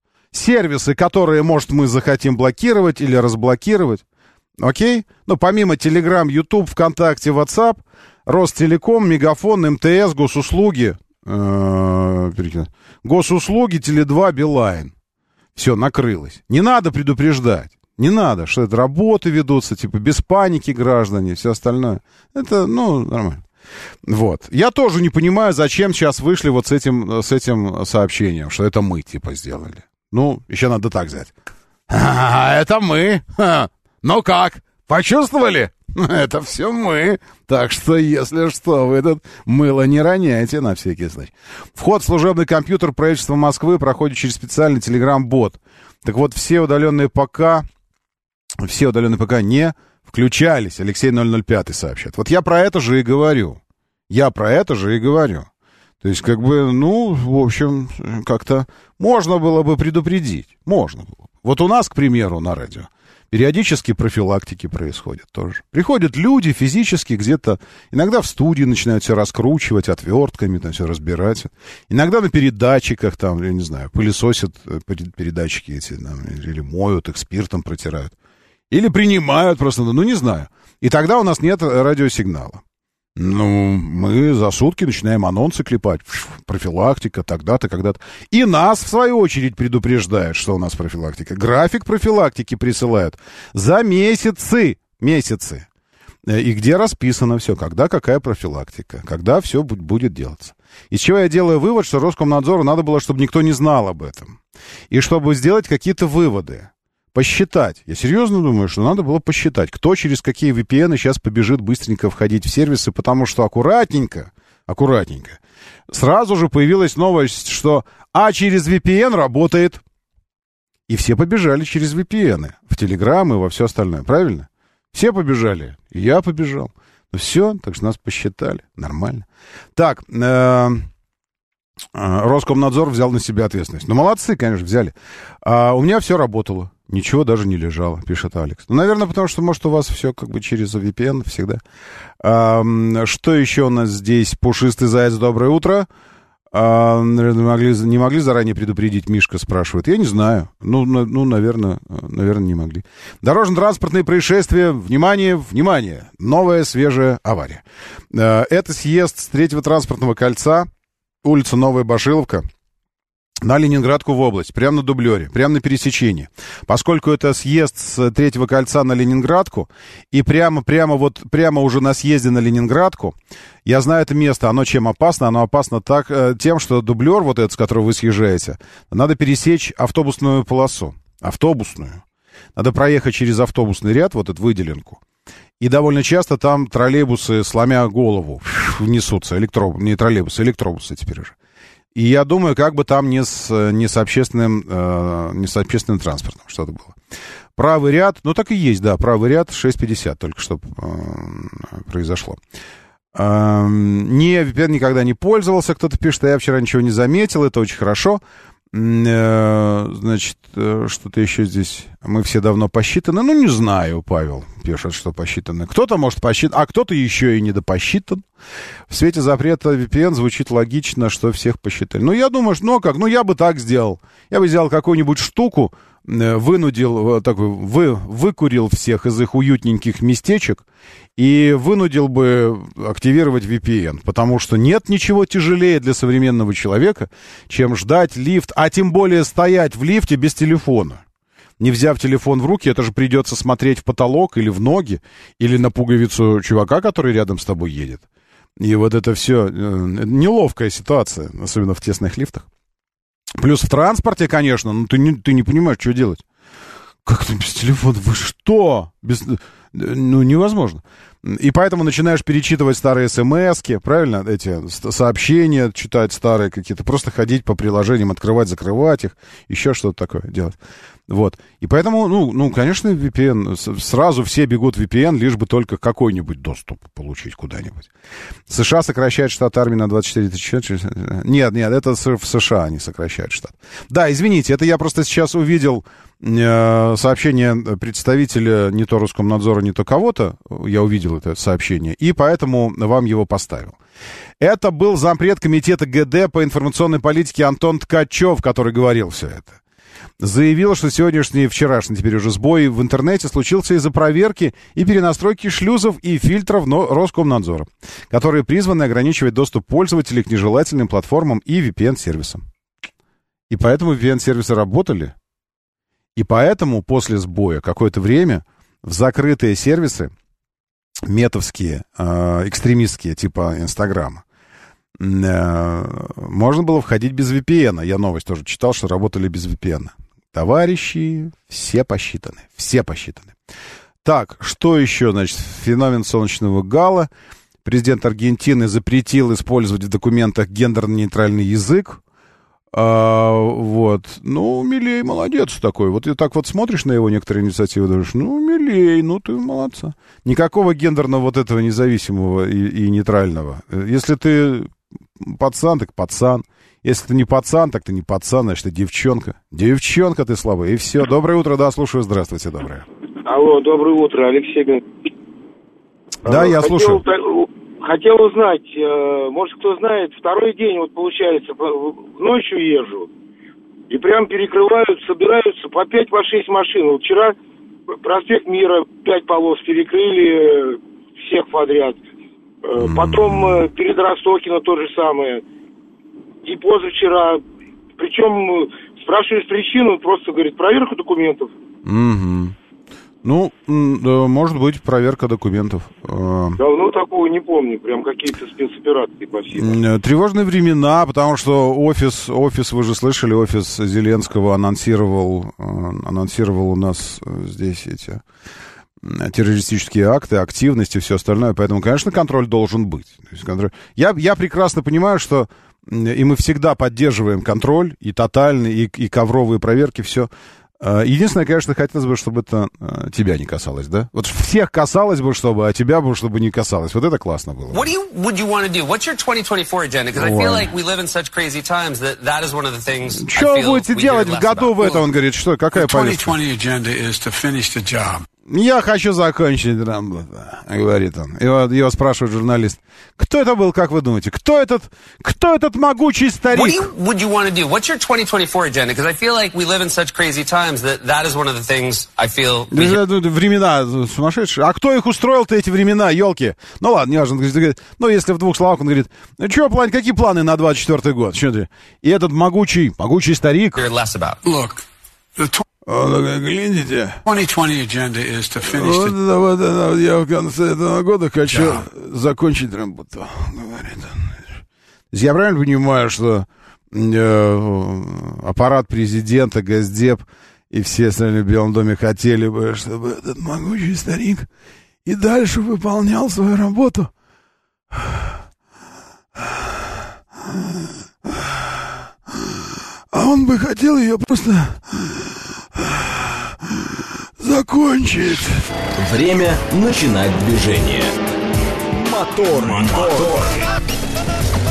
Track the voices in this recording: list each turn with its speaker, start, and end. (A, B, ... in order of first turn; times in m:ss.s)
0:00.3-0:04.0 A
0:04.6-0:14.9 A
0:15.5-0:23.4 A
0:24.1-0:31.3 A
0:31.9-0:47.6 A
0:48.6-0:55.5 A
0:56.0-1:18.1 A
1:18.7-1:22.6 A
1:23.2-1:35.6 A
1:36.3-1:44.4 A
1:44.9-1:55.4 A
1:55.9-1:59.8 A
2:00.9-2:10.9 A
2:11.9-2:21.6 A
2:22.2-2:25.9 A
2:26.5-2:40.7 A
2:41.2-2:42.4 A
2:43.4-3:02.0 A
3:02.6-3:05.0 A
3:05.6-3:11.3 A
3:11.9-3:17.0 A
3:17.6-3:22.4 A
3:23.1-3:28.2 A
3:28.7-3:38.2 A
3:38.9-3:50.6 A
3:51.2-4:01.0 A
4:01.6-4:08.0 A
4:08.6-4:12.4 A
4:13.4-4:16.2 A
4:17.0-4:30.6 A
4:31.1-4:37.9 A
4:38.5-4:53.8 A
4:54.4-4:59.6 A
5:00.2-5:12.4 A
5:13.5-5:15.1 A
5:16.2-5:20.1 A
5:21.0-5:24.2 A
5:25.0-5:33.3 A
5:34.0-5:37.1 A
5:37.6-5:42.0 A
5:42.7-6:02.8 A
6:03.2-6:05.1 B
6:06.2-6:07.0 A
6:06.2-6:13.1 B
6:13.9-6:17.4 B
6:18.0-6:22.0 B
6:22.6-6:25.4 B
6:22.8-6:23.6 A
6:26.4-6:27.4 B
6:28.0-6:31.5 B
6:31.8-6:32.5 A
6:33.2-6:36.6 A
6:36.6-6:39.8 B
6:39.5-6:48.2 A
6:49.0-7:00.3 A
7:00.8-7:07.9 A
7:07.7-7:15.0 C
7:10.1-7:10.7 A
7:13.1-7:16.3 A
7:15.7-7:18.2 D
7:18.5-7:26.9 A
7:26.5-7:33.0 C
7:32.7-7:43.8 A
7:43.8-7:44.4 C
7:44.4-7:44.8 D
7:45.4-7:45.6 D
7:45.8-7:47.2 A
7:47.2-7:49.2 D
7:48.7-7:54.3 A
7:51.5-7:51.8 D
7:55.1-8:04.5 A
8:05.0-8:07.1 A
8:09.4-8:09.6 A
8:10.5-8:11.6 A
8:13.1-8:16.9 A
8:17.4-8:18.6 A
8:19.0-8:21.1 E
8:21.9-8:23.6 E